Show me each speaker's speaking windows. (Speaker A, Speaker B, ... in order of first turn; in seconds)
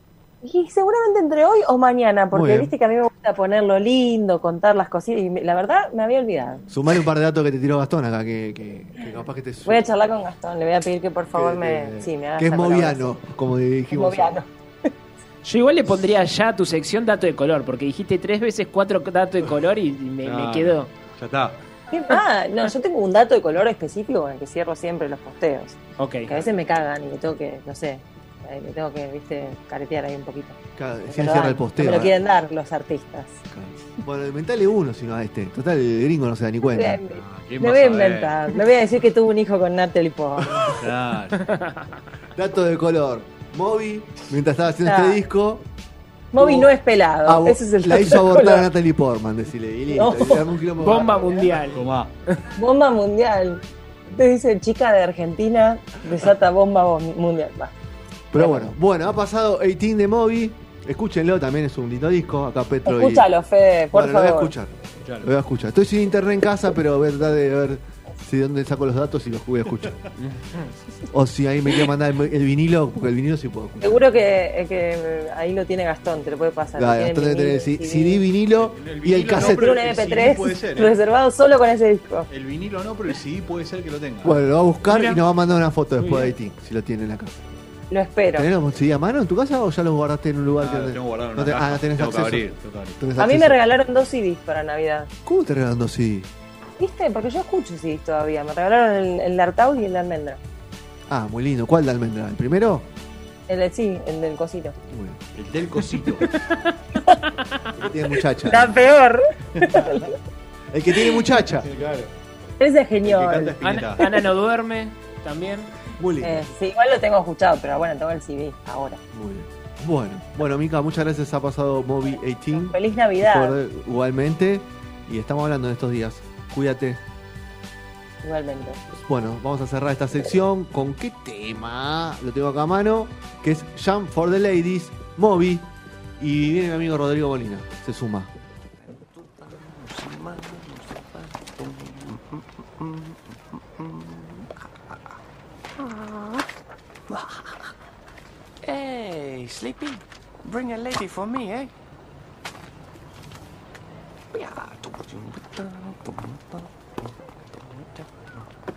Speaker A: 0.4-6.6, 9.7-13.1, 13.9-14.5, 21.9-33.4, 36.7-40.8, 44.8-45.2, 46.3-48.6, 49.9-50.5, 52.5-57.7, 58.4-58.7, 62.8-64.5, 73.8-78.2, 79.4-82.3, 87.9-88.5, 93.2-95.1, 96.8-100.4, 103.5-104.8, 108.4-110.2, 112.6-114.0, 116.2-119.0, 122.5-123.6, 128.2-128.8
Speaker B: 2.3-2.7, 6.7-9.8, 11.3-14.4, 30.8-32.1, 33.5-37.0, 42.3-45.6, 46.4-46.7, 47.2-51.3, 58.3-63.3, 63.9-70.0, 71.1-74.1, 76.8-79.8, 84.2-87.4, 88.3-92.4, 93.0-93.6, 95.2-96.3, 101.1-102.9, 104.9-105.2, 107.7-108.8, 110.7-111.7, 116.0-116.5, 119.1-127.0, 128.9-138.3
Speaker C: 15.4-20.9, 26.0-26.3, 50.8-51.8, 70.2-70.7, 84.9-85.2, 86.0-86.3, 113.6-115.7
Speaker D: 20.2-21.6, 37.1-38.6, 40.7-41.5, 51.7-52.1, 65.0-65.3, 78.6-81.0, 82.3-84.4, 90.6-93.0, 105.3-106.3, 109.6-110.0, 111.6-112.1, 113.0-114.1
Speaker E: 138.8-145.2, 145.8-146.5, 147.1-147.7, 148.6-151.7, 154.3-158.4